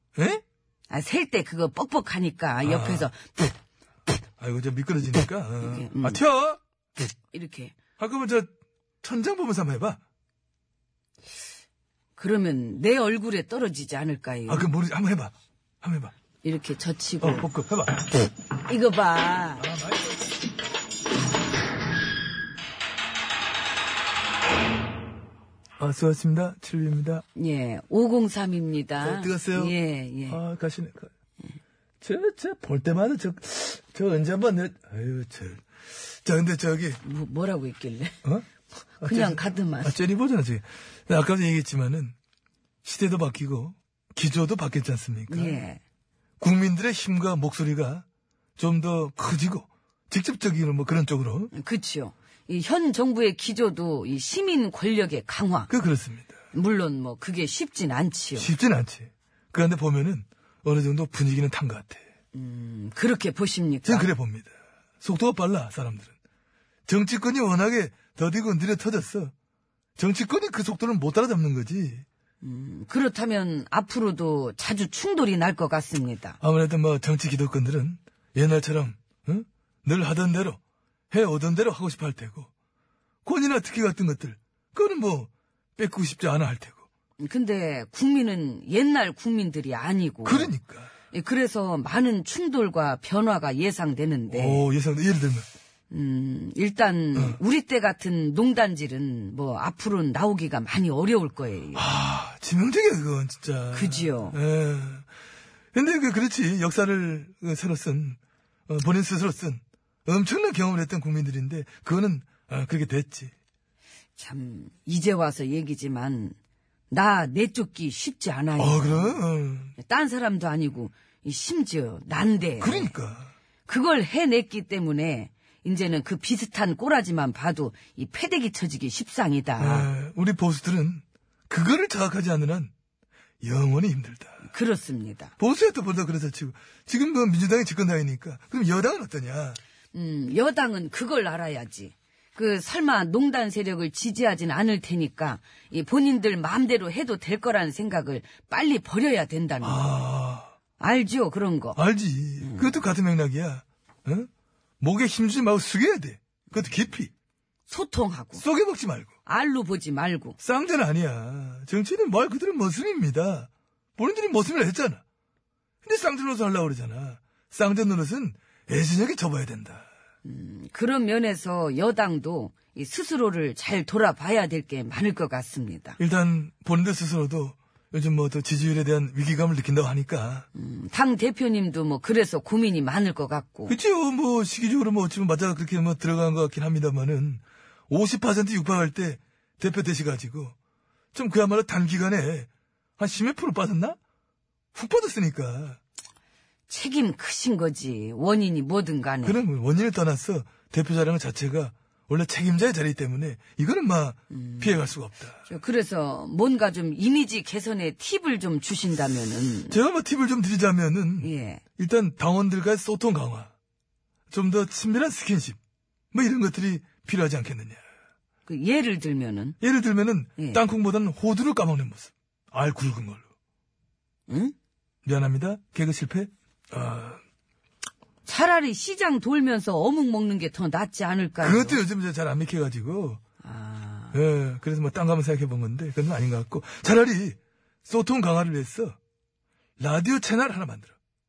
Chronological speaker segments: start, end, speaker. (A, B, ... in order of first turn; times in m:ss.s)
0:00.2-0:00.4 A
0:00.9-0:03.5 B
0:02.6-0:03.1 A
0:04.4-0:06.6 A
0:05.6-0:06.2 B
0:07.3-0:07.8 B
0:08.0-0:08.5 A
0:09.0-0:10.0 A
0:12.2-0:14.7 B
0:14.5-0:16.1 A
0:16.4-0:17.5 B
0:17.2-0:18.1 A
0:18.6-0:19.7 B
0:19.6-0:20.4 A
0:25.8-0:27.2 A
0:27.3-0:30.4 B
0:29.0-0:29.7 A
0:30.3-0:31.1 A
0:32.0-0:37.0 A
0:37.0-0:38.2 B
0:39.0-0:42.1 A
0:39.0-0:40.0 B
0:42.8-0:45.6 A
0:45.3-0:45.8 B
0:46.4-0:48.0 A
0:48.6-0:51.5 A
0:51.5-0:55.7 B
0:55.7-0:56.3 A
0:56.5-0:58.5 B
0:58.4-1:02.0 A
1:02.3-1:04.1 B
1:03.8-1:06.1 A
1:06.9-1:09.3 A
1:10.0-1:12.0 A
1:12.4-1:16.4 B
1:16.4-1:20.6 A
1:21.1-1:22.5 A
1:23.2-1:26.8 A
1:27.2-1:30.5 B
1:30.2-1:30.9 A
1:31.1-1:34.6 B
1:34.3-1:35.4 A
1:35.9-1:41.8 B
1:41.7-1:45.0 A
1:43.7-1:44.4 B
1:45.7-1:53.3 A
1:54.2-1:56.4 B
1:56.9-1:59.2 B
1:58.6-1:59.7 A
1:59.8-2:02.9 B
2:02.6-2:03.3 A
2:03.6-2:09.9 B
2:09.6-2:12.7 A
2:13.4-2:14.5 A
2:14.4-2:15.3 B
2:15.4-2:19.6 A
2:19.9-2:29.9 B
2:29.6-2:30.5 A
2:30.8-2:31.8 B
2:31.8-2:34.3 A
2:32.4-2:32.7 B
2:34.8-2:37.1 A
2:37.7-2:38.4 B
2:38.3-2:39.1 A
2:39.2-2:40.4 B
2:40.4-2:45.0 A
2:45.8-2:49.9 A
2:50.2-2:56.0 B
2:56.0-3:00.5 A
3:00.5-3:03.8 B
3:03.7-3:10.5 A
3:11.1-3:14.0 A
3:14.7-3:15.8 A
3:16.7-3:19.4 B
3:19.2-3:25.4 A
3:24.3-3:24.8 B
3:25.4-3:29.8 B
3:29.7-3:33.5 A
3:31.2-3:31.6 B
3:34.3-3:35.6 A
3:36.1-3:37.8 A
3:38.4-3:39.6 B
3:39.6-3:43.2 A
3:40.4-3:40.6 B
3:44.3-3:44.5 B
3:45.0-3:47.2 A
3:48.2-3:51.8 B
3:51.4-3:53.2 A
3:53.4-3:54.2 B
3:54.1-3:59.0 A
3:59.8-4:01.0 A